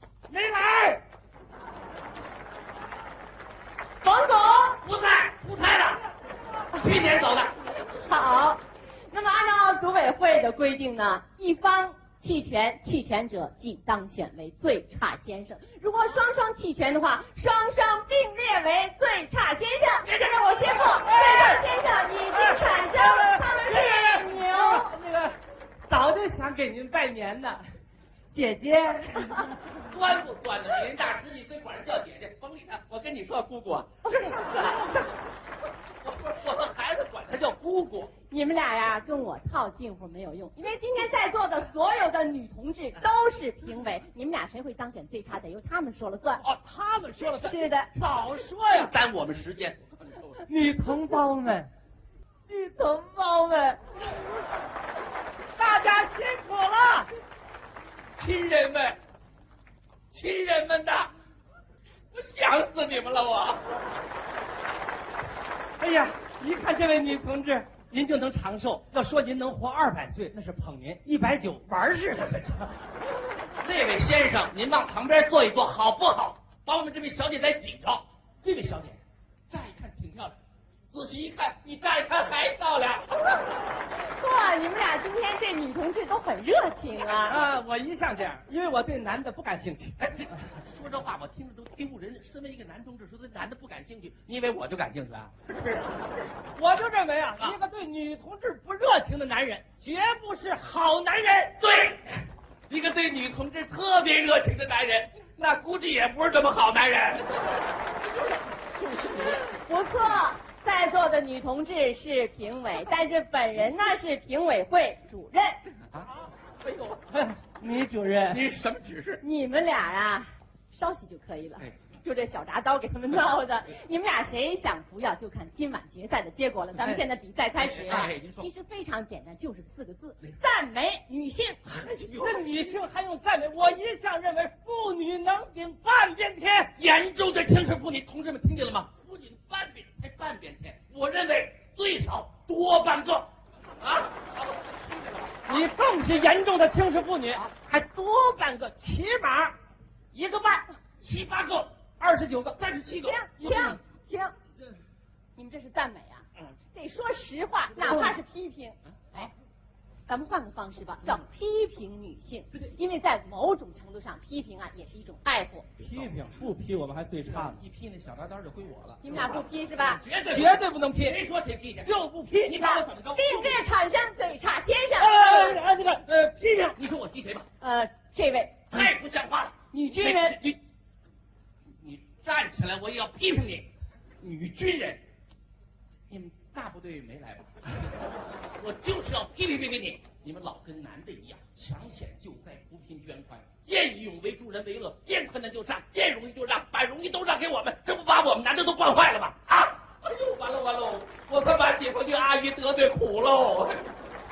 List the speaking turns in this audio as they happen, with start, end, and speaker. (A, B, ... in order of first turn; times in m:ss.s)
0:00.3-0:01.0 A
0:04.0-0:04.8 B
0:04.8-0:06.0 C
0:06.8-0:07.5 C
0:07.8-0:24.9 B
0:21.0-0:21.6 A
0:22.6-0:25.4 A
0:25.9-0:27.6 A
0:28.3-0:29.6 A
0:29.8-0:34.9 C
0:36.0-0:38.1 C
0:38.3-0:46.4 B
0:46.4-0:48.9 A
0:47.3-0:47.9 B
0:48.0-0:50.4 C
0:50.5-0:51.7 A
0:52.5-0:53.8 A
0:55.6-0:57.1 A
0:58.2-0:59.0 C
1:00.1-1:01.1 C
1:02.1-1:03.6 C
1:05.8-1:12.8 A
1:13.6-1:18.0 C
1:18.4-1:19.0 A
1:19.5-1:20.4 C
1:20.9-1:23.4 C
1:23.9-1:27.5 B
1:27.3-1:30.0 A
1:30.0-1:36.0 C
1:36.6-1:41.6 A
1:41.6-1:42.0 C
1:42.7-1:49.5 C
1:49.5-1:55.6 B
1:56.6-1:57.0 C
1:57.1-1:58.4 A
1:58.2-1:59.2 C
1:59.2-2:11.8 B
2:07.6-2:08.5 C
2:11.7-2:12.6 C
2:12.2-2:16.7 A
2:16.8-2:23.3 C
2:23.8-2:25.6 C
2:25.5-2:29.6 A
2:30.1-2:30.7 A
2:31.0-2:31.7 C
2:32.0-2:33.8 A
2:32.6-2:33.2 C
2:33.0-2:34.3 B
2:35.4-2:39.3 B
2:37.8-2:38.2 A
2:40.1-2:45.8 B
2:45.8-2:47.6 A
2:47.2-2:51.9 C
2:49.0-2:50.0 B
2:50.3-2:51.2 A
2:51.8-2:52.9 A
2:52.5-2:53.6 C
2:52.6-2:55.6 B
2:55.0-2:56.8 A
2:56.8-2:57.5 C
2:57.6-2:58.9 B
2:58.7-3:00.6 C
2:59.7-3:00.4 B
3:01.8-3:03.7 C
3:04.2-3:05.0 C
3:06.1-3:07.9 C
3:08.6-3:23.9 C